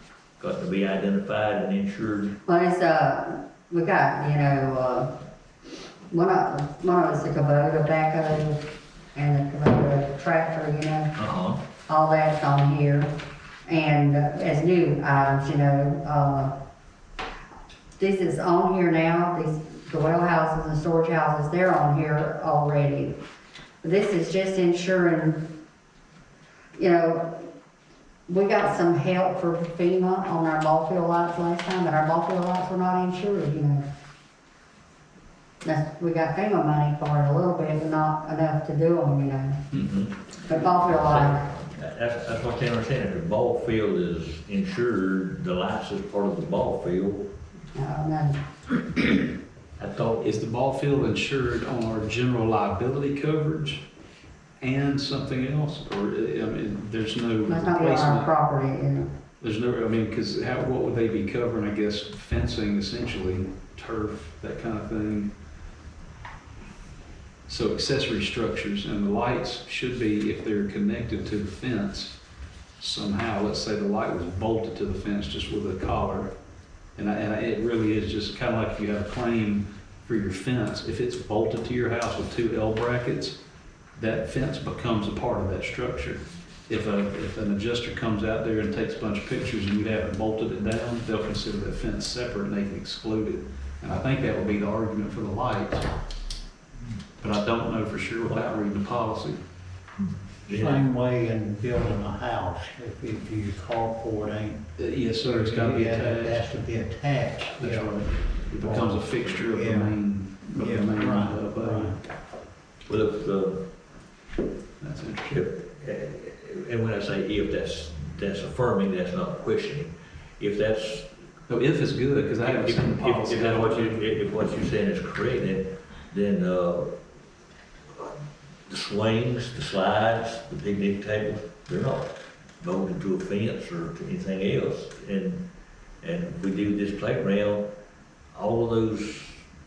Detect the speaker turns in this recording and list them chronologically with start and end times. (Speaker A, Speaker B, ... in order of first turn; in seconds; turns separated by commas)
Speaker A: 0.4-2.4, Speaker B: 2.5-5.1, Speaker B: 6.1-8.6, Speaker B: 9.2-11.1, Speaker A: 11.2-11.6, Speaker B: 11.9-13.1, Speaker B: 13.7-16.5, Speaker B: 18.0-23.2, Speaker B: 23.8-25.5, Speaker B: 26.8-27.5, Speaker B: 28.3-33.9, Speaker B: 35.6-39.6, Speaker A: 39.7-40.2, Speaker B: 40.4-41.4, Speaker A: 40.9-47.3, Speaker B: 47.8-48.4, Speaker A: 49.8-50.2, Speaker C: 50.2-53.8, Speaker C: 54.6-58.3, Speaker B: 57.5-59.1, Speaker C: 59.4-65.3, Speaker C: 67.5-72.2, Speaker C: 72.8-76.3, Speaker C: 77.0-83.4, Speaker C: 84.0-95.9, Speaker C: 97.2-99.4, Speaker A: 100.0-100.8, Speaker D: 100.5-104.6, Speaker C: 104.8-106.6, Speaker D: 105.2-110.0, Speaker C: 107.6-112.0, Speaker D: 110.5-112.0, Speaker A: 112.9-113.7, Speaker C: 114.8-115.4, Speaker A: 115.3-121.1, Speaker C: 121.5-124.2, Speaker A: 122.5-126.9, Speaker A: 128.7-135.4, Speaker A: 136.0-137.7, Speaker A: 138.3-139.4